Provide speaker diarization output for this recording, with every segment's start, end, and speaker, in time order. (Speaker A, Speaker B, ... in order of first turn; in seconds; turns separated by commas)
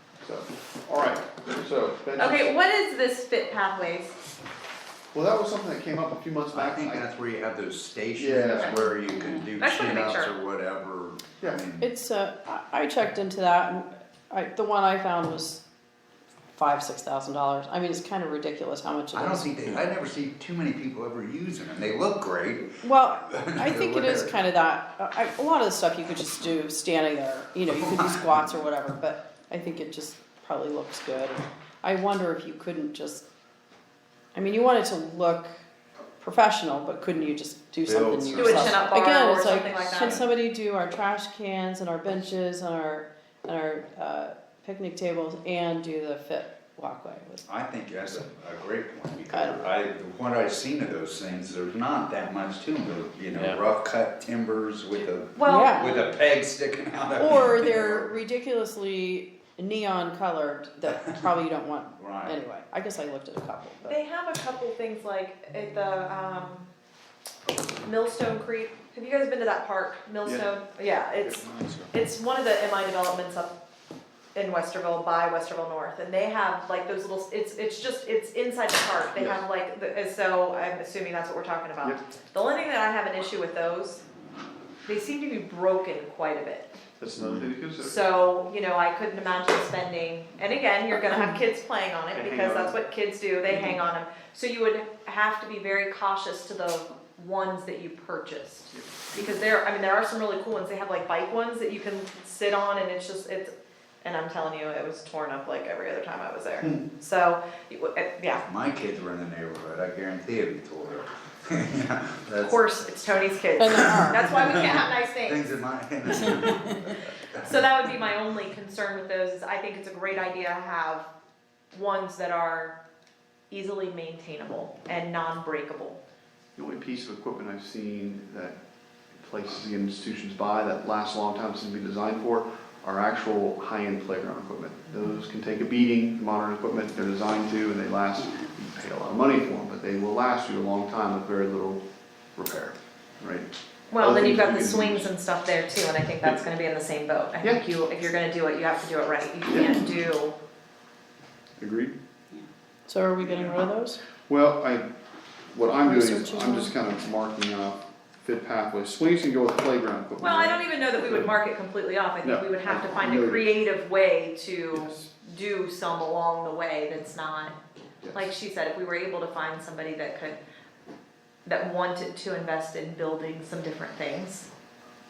Speaker A: 0.2-2.5, Speaker B: 2.2-4.2, Speaker A: 5.1-7.1, Speaker C: 6.5-11.9, Speaker A: 8.2-8.8, Speaker B: 9.6-10.3, Speaker D: 11.8-15.6, Speaker D: 16.5-19.8, Speaker C: 19.1-24.4, Speaker D: 22.8-33.2, Speaker C: 27.6-28.6, Speaker D: 34.3-35.5, Speaker D: 36.2-47.4, Speaker C: 37.8-38.8, Speaker B: 38.3-40.2, Speaker C: 47.5-58.1, Speaker D: 49.3-49.7, Speaker B: 55.4-55.8, Speaker D: 55.4-55.9, Speaker D: 57.2-64.0, Speaker C: 62.0-62.4, Speaker B: 63.8-66.7, Speaker B: 67.8-73.5, Speaker A: 71.2-71.9, Speaker B: 74.3-84.0, Speaker B: 84.8-86.7, Speaker A: 87.0-88.0, Speaker B: 87.8-103.5, Speaker A: 92.1-92.8, Speaker A: 98.7-99.3, Speaker B: 104.0-108.4, Speaker C: 108.3-112.7, Speaker B: 112.4-115.4, Speaker D: 113.6-114.2, Speaker C: 113.7-117.5, Speaker B: 117.4-121.1, Speaker B: 121.7-122.8, Speaker B: 123.5-126.0, Speaker A: 126.5-128.6, Speaker A: 129.2-141.8, Speaker A: 142.3-145.1, Speaker B: 143.9-150.3, Speaker A: 149.5-149.8, Speaker A: 151.6-151.9, Speaker D: 152.9-154.0, Speaker C: 153.2-153.6, Speaker A: 154.3-154.8, Speaker A: 155.5-161.3, Speaker D: 155.8-156.7, Speaker B: 160.2-167.6, Speaker A: 162.2-163.5, Speaker A: 164.7-165.1, Speaker A: 168.0-168.3, Speaker B: 168.1-170.4, Speaker B: 171.4-174.5